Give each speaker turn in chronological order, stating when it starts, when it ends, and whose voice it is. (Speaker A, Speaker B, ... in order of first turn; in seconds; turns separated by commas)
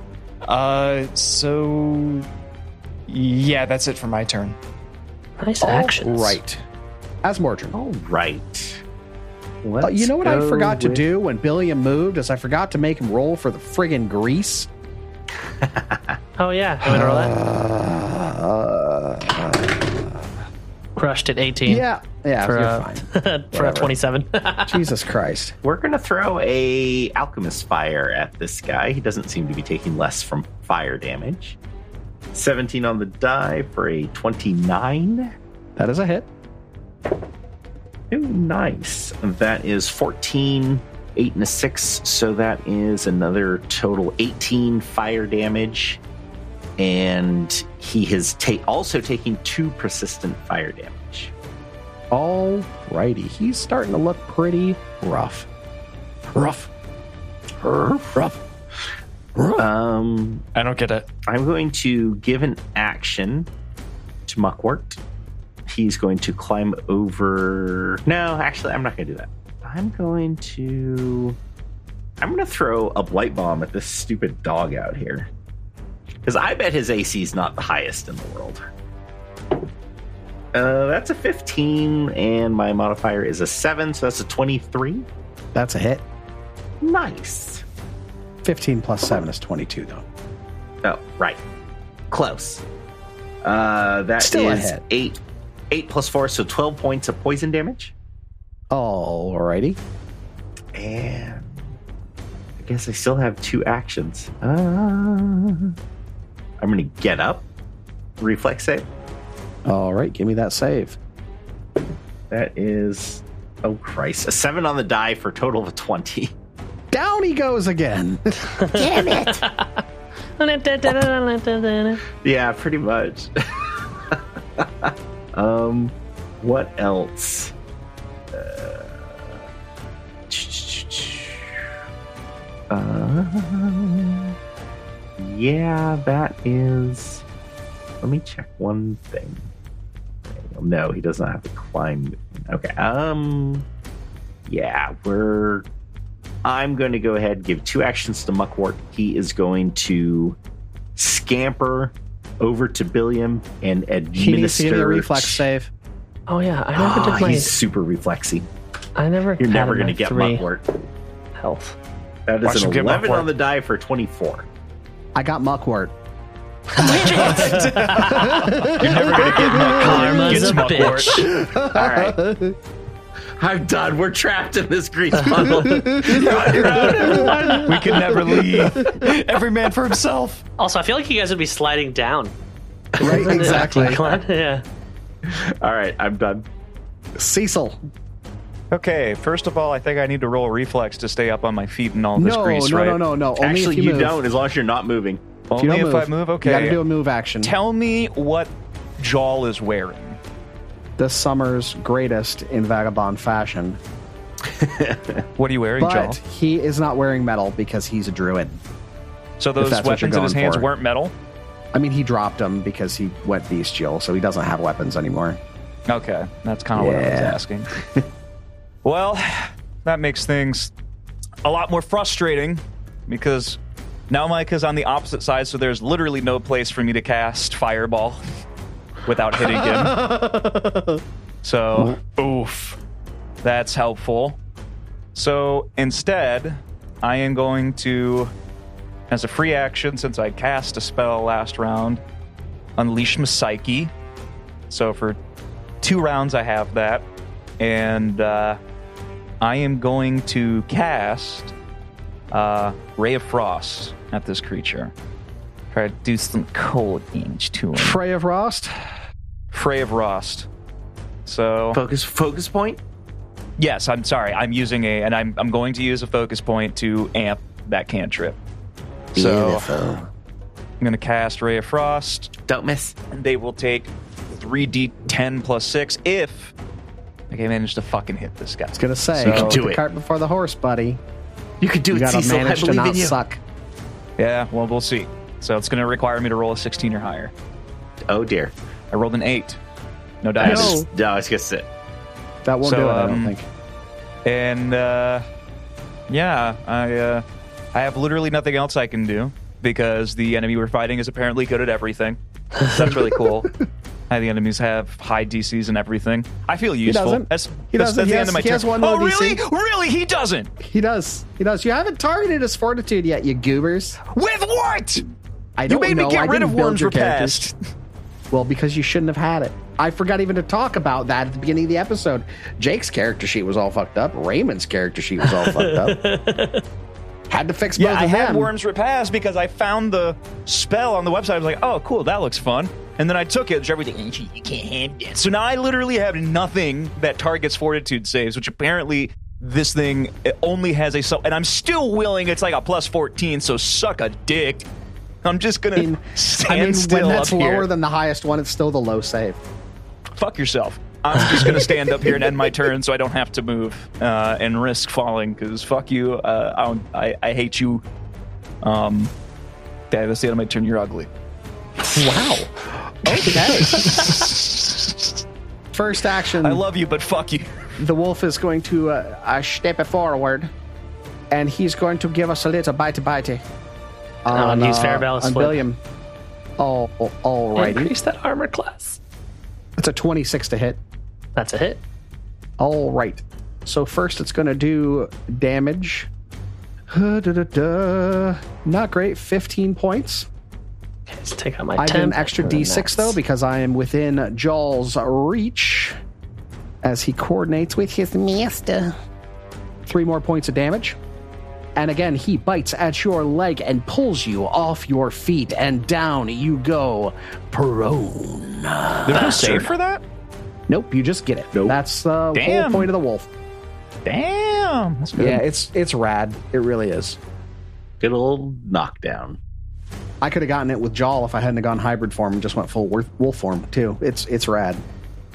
Speaker A: 0.5-2.3, Speaker A: 3.1-4.6, Speaker B: 5.4-6.4, Speaker C: 5.6-6.6, Speaker C: 7.2-7.8, Speaker D: 7.7-8.8, Speaker D: 9.6-11.0, Speaker C: 9.8-14.7, Speaker D: 15.6-16.2, Speaker B: 16.4-17.3, Speaker C: 16.8-20.3, Speaker B: 21.0-21.9, Speaker C: 21.7-23.9, Speaker B: 22.4-24.9, Speaker C: 24.7-25.6, Speaker D: 25.6-31.6, Speaker D: 32.3-35.3, Speaker C: 35.8-36.3, Speaker D: 38.1-46.0, Speaker D: 46.8-51.3, Speaker C: 52.1-55.5, Speaker C: 56.3-56.7, Speaker C: 57.6-58.4, Speaker D: 57.9-58.2, Speaker C: 59.4-59.6, Speaker D: 59.6-60.5, Speaker A: 60.5-61.1, Speaker D: 61.3-63.5, Speaker D: 64.3-65.0, Speaker D: 65.7-71.4, Speaker D: 72.2-75.3, Speaker D: 76.2-78.6, Speaker D: 80.5-85.1, Speaker C: 85.5-86.0, Speaker D: 86.8-87.6, Speaker C: 88.4-90.0, Speaker D: 90.8-91.4, Speaker D: 92.1-92.6, Speaker D: 93.4-97.9, Speaker C: 94.2-94.8, Speaker C: 98.7-99.8, Speaker D: 100.8-101.7, Speaker D: 102.6-105.8, Speaker D: 106.6-107.5, Speaker D: 108.2-108.9, Speaker C: 109.7-111.0, Speaker D: 112.3-116.3, Speaker C: 116.9-118.4, Speaker B: 118.6-119.8, Speaker D: 118.7-119.5, Speaker B: 120.4-122.0, Speaker D: 122.2-123.3, Speaker D: 124.1-127.5, Speaker D: 128.3-129.4, Speaker D: 130.3-131.5, Speaker D: 132.7-134.3, Speaker D: 135.2-137.2, Speaker D: 138.0-139.5, Speaker D: 140.3-143.7, Speaker D: 144.5-145.7, Speaker D: 146.4-150.4, Speaker D: 151.0-155.4, Speaker C: 154.2-155.7, Speaker B: 156.3-157.6, Speaker D: 156.8-158.5, Speaker B: 159.0-160.5, Speaker D: 159.4-160.7, Speaker B: 161.4-161.8, Speaker D: 162.3-164.5, Speaker A: 162.4-163.3, Speaker C: 165.2-165.9, Speaker B: 166.8-171.3, Speaker A: 166.8-168.7, Speaker D: 166.9-167.6, Speaker C: 168.0-170.5, Speaker E: 168.6-171.3, Speaker C: 171.2-172.6, Speaker D: 171.4-172.2, Speaker D: 173.4-178.4, Speaker C: 175.4-177.6, Speaker A: 176.1-177.7, Speaker E: 177.6-178.9, Speaker A: 178.8-180.4, Speaker B: 180.6-182.3, Speaker C: 183.0-184.0, Speaker D: 183.0-184.2, Speaker B: 183.0-184.6, Speaker D: 185.2-186.5, Speaker C: 187.2-187.8, Speaker E: 188.7-193.0, Speaker C: 192.2-194.2, Speaker D: 193.4-195.2, Speaker E: 195.5-196.8, Speaker C: 195.6-197.6, Speaker E: 197.4-200.2, Speaker C: 201.0-203.8, Speaker D: 204.5-205.2, Speaker E: 205.4-206.2, Speaker C: 205.8-208.6, Speaker E: 209.4-211.1, Speaker C: 209.6-210.7, Speaker C: 211.7-215.4, Speaker E: 215.9-217.7, Speaker C: 216.8-218.0, Speaker E: 218.8-220.7, Speaker E: 221.4-223.6, Speaker E: 224.1-228.2, Speaker E: 229.1-230.1, Speaker C: 229.6-230.9, Speaker E: 231.4-232.0, Speaker A: 232.0-232.8, Speaker E: 233.4-234.4, Speaker E: 235.1-238.3, Speaker E: 239.1-242.0, Speaker E: 242.8-243.9, Speaker E: 244.7-245.2, Speaker E: 245.8-247.1, Speaker E: 247.6-248.6, Speaker E: 249.4-251.5, Speaker E: 252.3-254.9, Speaker E: 255.7-258.0, Speaker C: 257.8-258.7, Speaker E: 259.5-260.5, Speaker E: 261.3-261.8, Speaker D: 261.7-262.8, Speaker E: 263.6-268.4, Speaker E: 269.1-269.7, Speaker D: 269.1-270.0, Speaker E: 270.8-272.3, Speaker D: 272.5-272.9, Speaker E: 273.1-276.5, Speaker E: 277.3-279.6, Speaker C: 278.7-281.0, Speaker D: 279.2-279.8, Speaker D: 281.6-283.2, Speaker C: 281.9-283.4, Speaker E: 284.2-287.3, Speaker D: 288.1-288.5, Speaker E: 288.9-289.6, Speaker E: 290.2-290.8, Speaker D: 290.4-291.7, Speaker C: 290.4-290.9, Speaker C: 292.4-293.5, Speaker E: 292.6-293.3, Speaker E: 294.2-295.2, Speaker E: 296.1-303.5, Speaker E: 304.1-310.5, Speaker C: 306.9-309.4, Speaker C: 310.6-314.0, Speaker E: 314.1-315.1, Speaker C: 315.6-317.5, Speaker E: 315.7-317.5, Speaker C: 318.3-326.0, Speaker B: 325.2-326.6, Speaker C: 327.3-328.5, Speaker E: 327.8-344.7, Speaker E: 345.2-347.7, Speaker C: 345.8-349.4, Speaker E: 350.2-357.8, Speaker E: 358.6-359.1, Speaker E: 359.9-361.1, Speaker C: 361.8-364.2, Speaker E: 363.1-365.2, Speaker C: 365.7-366.6, Speaker E: 366.4-367.7, Speaker C: 367.8-370.5, Speaker C: 371.3-373.4, Speaker C: 374.3-375.8, Speaker B: 374.3-375.6, Speaker C: 376.6-377.9, Speaker B: 377.6-379.0, Speaker C: 379.8-380.8, Speaker B: 381.4-381.8, Speaker C: 382.6-386.1, Speaker C: 386.9-390.3, Speaker B: 391.1-393.2, Speaker C: 391.8-396.0, Speaker C: 396.8-398.9, Speaker C: 399.9-401.0, Speaker C: 401.8-409.7, Speaker E: 409.1-410.0, Speaker C: 410.7-413.3, Speaker E: 412.3-412.9, Speaker E: 414.1-415.4, Speaker C: 415.2-417.2, Speaker D: 418.0-419.4, Speaker C: 420.2-424.8